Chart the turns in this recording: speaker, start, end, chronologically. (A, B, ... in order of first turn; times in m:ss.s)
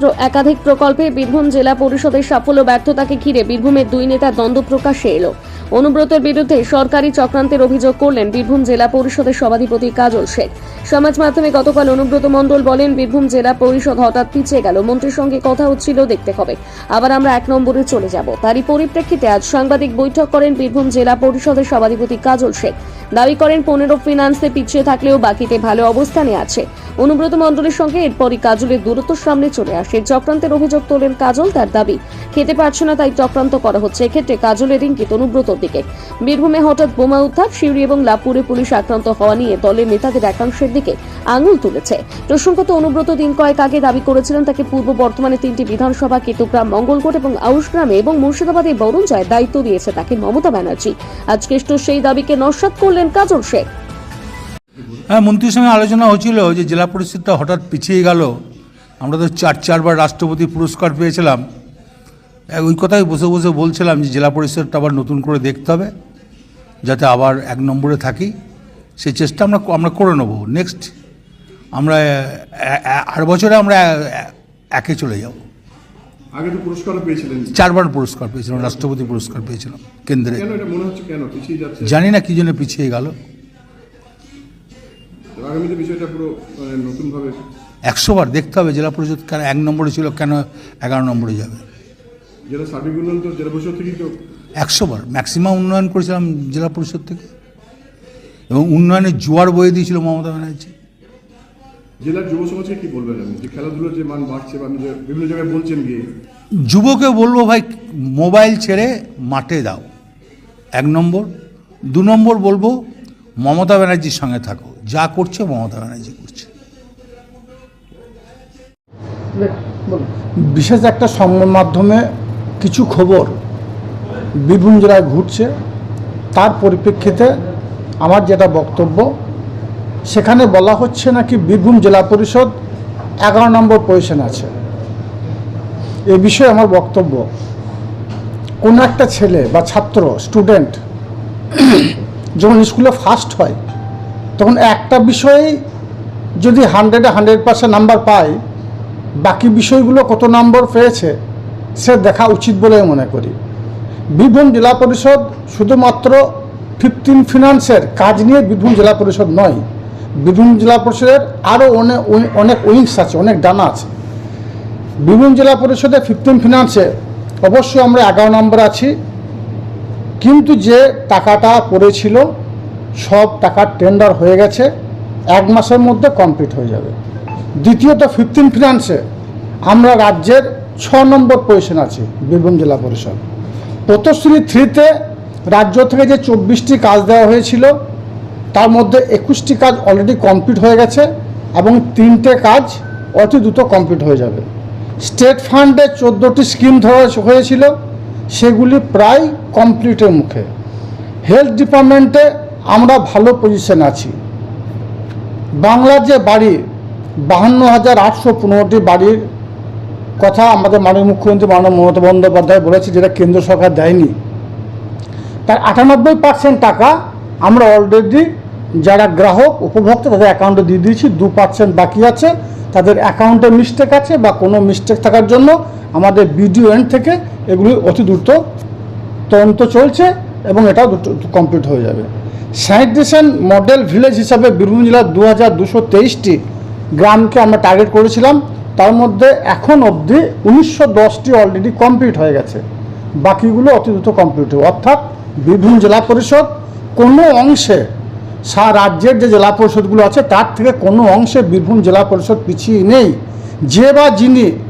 0:03.1-0:10.3 A
0:11.0-0:18.4 A
0:19.4-0:20.3 A
0:21.6-0:22.5 A
0:23.2-0:26.5 A
0:27.1-0:28.8 A
0:30.1-0:35.8 A
0:36.4-0:38.8 A
0:40.3-0:53.6 A
0:55.1-0:58.3 B
0:59.0-1:01.4 B
1:02.5-1:05.9 B
1:06.8-1:08.3 B
1:09.0-1:10.9 B
1:11.7-1:15.4 B
1:16.3-1:17.5 C
1:17.5-1:20.4 B
1:20.3-1:22.0 C
1:21.8-1:23.1 B
1:25.4-1:27.4 C
1:27.8-1:31.6 B
1:32.5-1:34.2 C
1:34.6-1:37.2 B
1:38.5-1:40.7 B
1:42.0-1:46.0 C
1:46.7-1:49.8 B
1:50.7-1:51.3 B
1:51.9-1:52.8 B
1:53.4-1:56.5 B
1:59.4-2:02.0 D
2:02.6-2:03.3 D
2:04.4-2:05.5 D
2:06.3-2:07.3 D
2:08.0-2:09.0 D
2:10.1-2:12.5 D
2:13.2-2:14.5 D
2:16.1-2:17.2 D
2:18.6-2:20.7 D
2:22.4-2:23.6 D
2:24.4-2:25.5 D
2:26.4-2:28.4 D
2:29.2-2:31.1 D
2:31.8-2:33.3 D
2:34.1-2:36.2 D
2:36.8-2:39.6 D
2:40.2-2:43.9 D
2:45.0-2:46.9 D
2:47.4-2:48.9 D
2:50.2-2:52.2 D
2:53.0-2:54.7 D
2:55.3-2:56.9 D
2:57.6-2:59.0 D
2:59.7-3:03.2 D
3:03.9-3:04.9 D
3:05.5-3:07.7 D
3:08.5-3:14.4 D
3:15.0-3:17.7 D
3:18.3-3:20.5 D
3:21.2-3:24.1 D
3:25.6-3:26.6 D
3:27.3-3:29.2 D
3:30.2-3:34.1 D
3:35.5-3:38.3 D
3:38.8-3:48.4 D
3:49.3-3:52.1 D
3:52.6-3:56.4 D
3:57.0-4:02.6 D
4:03.2-4:07.8 D
4:08.5-4:13.1 D
4:13.7-4:14.5 D